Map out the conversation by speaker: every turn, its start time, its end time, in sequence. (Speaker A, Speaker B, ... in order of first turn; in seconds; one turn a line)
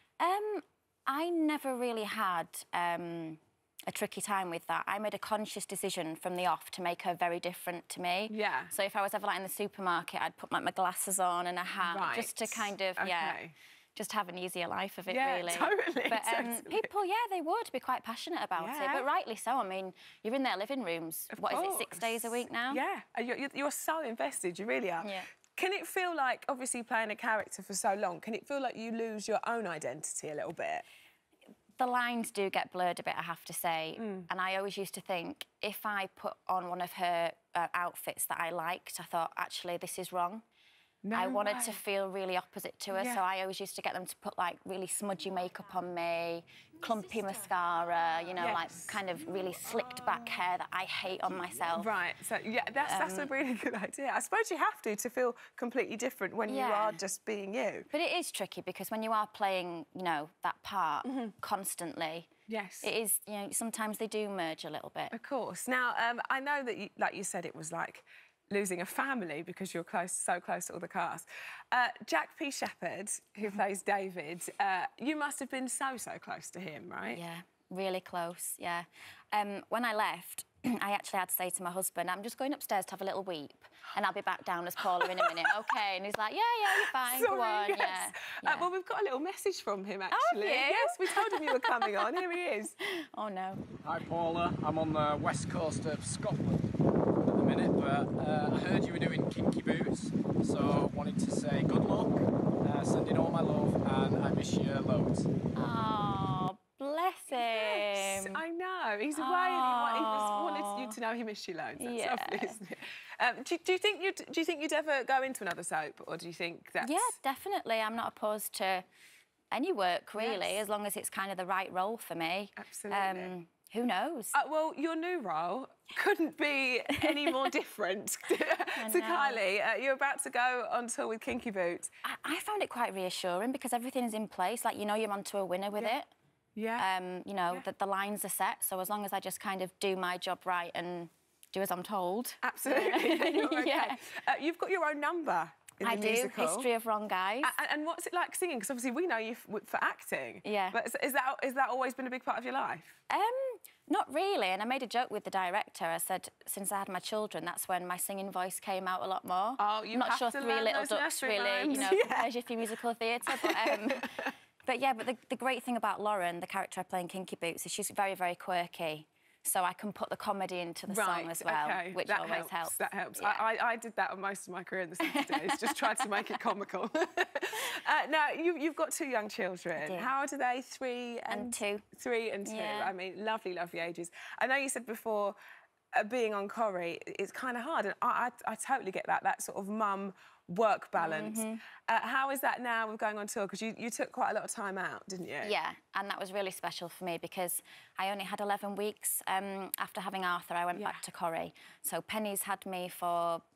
Speaker A: 0.2-13.4
Speaker B: 8.3-8.7
Speaker B: 11.8-13.5
Speaker A: 13.9-22.8
Speaker B: 15.1-16.9
Speaker B: 18.6-19.1
Speaker B: 21.3-30.8
Speaker A: 25.0-25.3
Speaker A: 31.8-40.4
Speaker B: 34.0-34.3
Speaker B: 41.0-41.8
Speaker A: 41.1-51.9
Speaker B: 42.9-43.2
Speaker B: 48.4-49.0
Speaker B: 51.7-57.9
Speaker A: 52.8-53.3
Speaker A: 56.5-57.0
Speaker A: 57.9-62.3
Speaker B: 61.0-61.3
Speaker B: 62.5-62.9
Speaker A: 62.8-65.1
Speaker B: 65.1-77.2
Speaker A: 77.1-88.7
Speaker B: 86.8-92.7
Speaker A: 90.1-92.1
Speaker A: 93.0-93.6
Speaker C: 93.8-96.6
Speaker C: 97.2-105.3
Speaker A: 105.5-108.4
Speaker B: 107.3-117.1
Speaker A: 109.2-110.9
Speaker A: 111.8-112.6
Speaker A: 116.8-118.8
Speaker A: 119.5-124.3
Speaker B: 120.2-120.6
Speaker B: 122.6-123.3
Speaker B: 124.3-131.9
Speaker A: 128.8-129.4
Speaker A: 132.0-136.1
Speaker B: 136.6-136.9
Speaker A: 136.8-144.0
Speaker B: 142.4-146.7
Speaker A: 145.8-147.5
Speaker B: 147.4-153.0
Speaker A: 150.4-150.8
Speaker A: 153.1-164.1
Speaker B: 159.6-162.3
Speaker B: 163.3-164.2
Speaker A: 164.7-173.4
Speaker B: 170.9-185.3
Speaker A: 175.1-175.4
Speaker A: 179.8-180.1
Speaker A: 181.3-181.8
Speaker A: 182.4-182.9
Speaker B: 185.9-195.5
Speaker A: 191.0-191.6
Speaker A: 195.4-203.4
Speaker B: 200.7-201.0